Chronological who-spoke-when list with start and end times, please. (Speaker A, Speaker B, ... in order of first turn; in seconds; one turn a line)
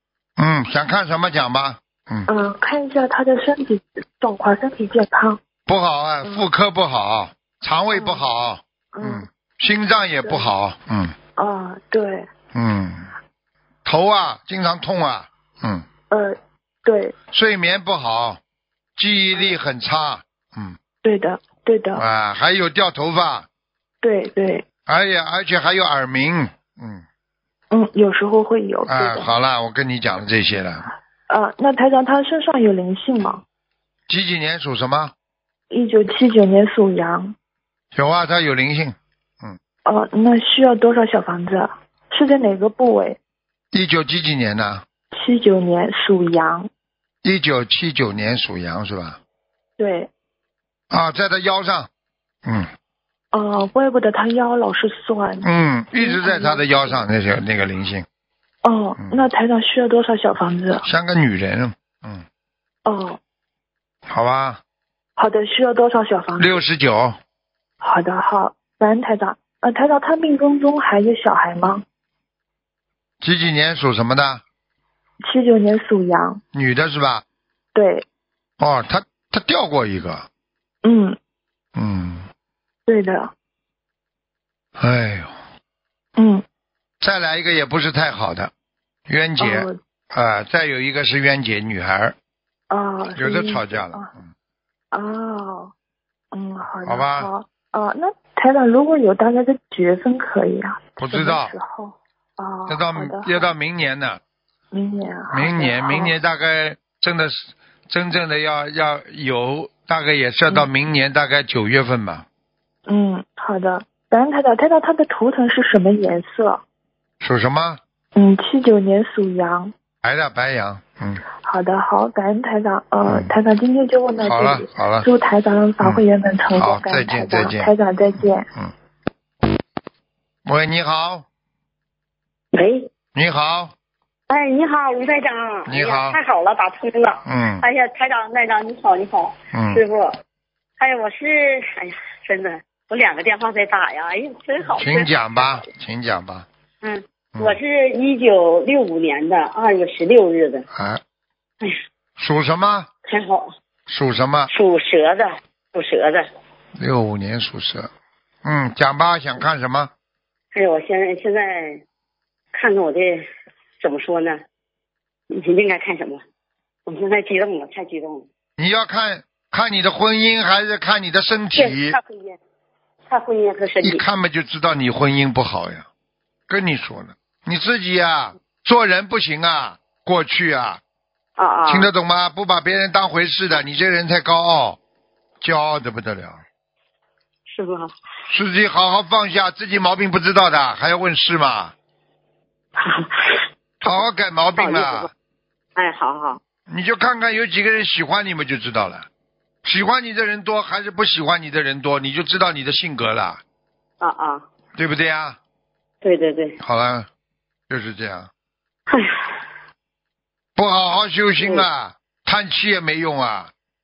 Speaker A: 0.4-2.3
Speaker B: 2.3-5.4
Speaker A: 5.7-11.2
Speaker B: 7.9-8.2
Speaker B: 8.9-9.2
Speaker B: 10.2-10.5
Speaker B: 11.4-12.3
Speaker A: 12.5-13.1
Speaker A: 13.8-15.9
Speaker B: 16.1-17.1
Speaker A: 17.3-18.4
Speaker A: 18.9-20.8
Speaker B: 21.0-22.0
Speaker A: 21.9-23.5
Speaker B: 24.0-24.6
Speaker A: 24.9-27.0
Speaker B: 27.7-29.3
Speaker A: 28.9-30.9
Speaker B: 31.3-33.4
Speaker A: 34.1-35.1
Speaker B: 35.7-37.3
Speaker A: 37.9-39.6
Speaker B: 39.8-43.2
Speaker A: 43.7-44.8
Speaker B: 45.1-46.7
Speaker A: 47.2-49.2
Speaker B: 49.8-50.1
Speaker A: 50.9-51.9
Speaker B: 53.3-57.0
Speaker A: 55.4-58.0
Speaker B: 58.6-60.8
Speaker A: 59.0-59.2
Speaker A: 60.8-62.2
Speaker B: 62.9-63.2
Speaker A: 64.1-64.6
Speaker B: 65.2-66.6
Speaker A: 66.4-67.2
Speaker B: 67.8-71.8
Speaker A: 73.2-74.4
Speaker B: 75.2-76.4
Speaker A: 76.5-77.2
Speaker B: 77.7-78.0
Speaker A: 78.6-80.3
Speaker B: 80.8-81.2
Speaker A: 81.8-82.3
Speaker B: 82.9-83.3
Speaker A: 84.8-85.3
Speaker B: 86.2-86.4
Speaker A: 87.0-88.5
Speaker A: 89.1-92.1
Speaker B: 89.4-89.8
Speaker B: 92.7-94.1
Speaker A: 93.2-94.2
Speaker B: 94.9-95.7
Speaker B: 96.3-103.5
Speaker A: 96.8-97.3
Speaker A: 101.0-101.5
Speaker A: 102.7-104.2
Speaker B: 104.7-106.1
Speaker A: 105.3-112.2
Speaker B: 112.9-116.6
Speaker A: 117.2-117.8
Speaker B: 118.1-119.7
Speaker A: 120.0-121.2
Speaker B: 121.4-128.5
Speaker A: 123.0-123.3
Speaker A: 124.2-125.1
Speaker A: 126.5-128.7
Speaker A: 130.4-131.2
Speaker C: 132.5-132.9
Speaker A: 133.1-133.7
Speaker C: 134.3-140.2
Speaker A: 135.7-136.2
Speaker A: 137.2-137.6
Speaker A: 139.5-139.8
Speaker C: 140.8-145.1
Speaker A: 144.7-146.5
Speaker C: 146.8-150.7
Speaker A: 150.7-151.0
Speaker A: 152.2-152.9
Speaker C: 153.1-153.5
Speaker A: 153.9-154.5
Speaker C: 154.5-156.3
Speaker A: 156.8-157.9
Speaker A: 158.4-159.9
Speaker C: 160.5-161.8
Speaker C: 162.5-163.3
Speaker C: 163.8-164.4
Speaker C: 165.3-166.2
Speaker C: 166.8-168.2
Speaker A: 168.6-172.0
Speaker C: 171.5-172.4
Speaker C: 173.1-174.0
Speaker A: 173.8-175.8
Speaker A: 176.5-180.8
Speaker C: 181.4-181.9
Speaker A: 181.7-184.8
Speaker A: 185.4-186.4
Speaker C: 187.5-187.9
Speaker A: 188.3-191.7
Speaker C: 192.8-194.0
Speaker A: 193.8-195.1
Speaker C: 194.6-195.1
Speaker C: 195.8-196.4
Speaker A: 196.7-199.1
Speaker A: 199.6-203.4
Speaker C: 204.0-204.4
Speaker A: 204.8-205.4
Speaker C: 206.0-206.6
Speaker A: 206.6-207.1
Speaker A: 207.7-208.3
Speaker C: 208.9-209.3
Speaker A: 210.6-213.5
Speaker C: 211.4-211.7